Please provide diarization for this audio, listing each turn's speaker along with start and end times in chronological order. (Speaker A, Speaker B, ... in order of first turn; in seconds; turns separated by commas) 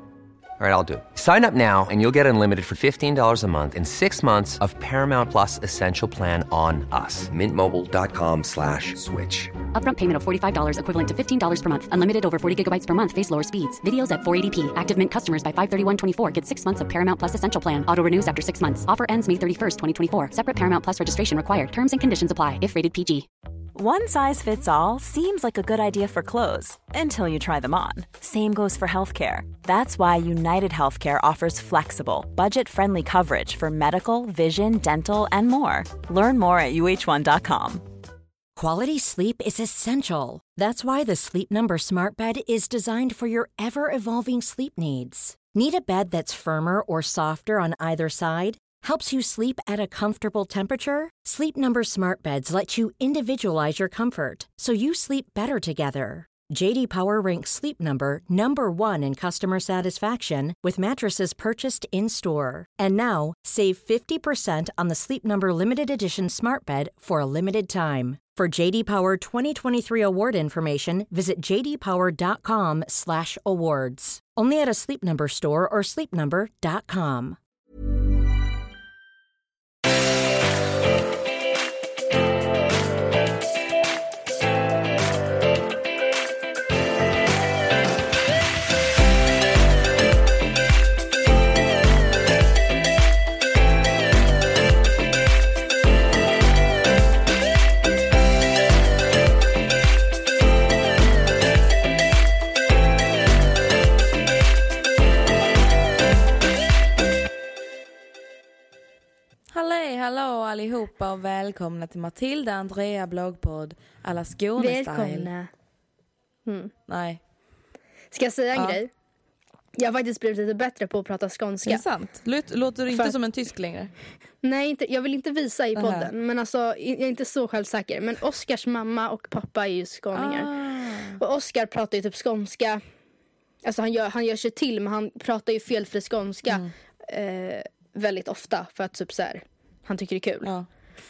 Speaker A: 0.6-9.5, Speaker B: 9.7-23.3, Speaker C: 23.7-37.9, Speaker D: 38.5-77.4, Speaker E: 109.5-115.3, Speaker F: 114.6-115.5, Speaker F: 116.5-116.7, Speaker E: 116.9-117.2, Speaker F: 118.1-118.9, Speaker E: 118.5-118.8, Speaker F: 119.8-121.8, Speaker E: 121.6-123.9, Speaker F: 124.4-130.5, Speaker E: 125.8-126.1, Speaker E: 130.1-131.2, Speaker F: 131.2-132.8, Speaker F: 133.6-140.5, Speaker E: 136.4-136.7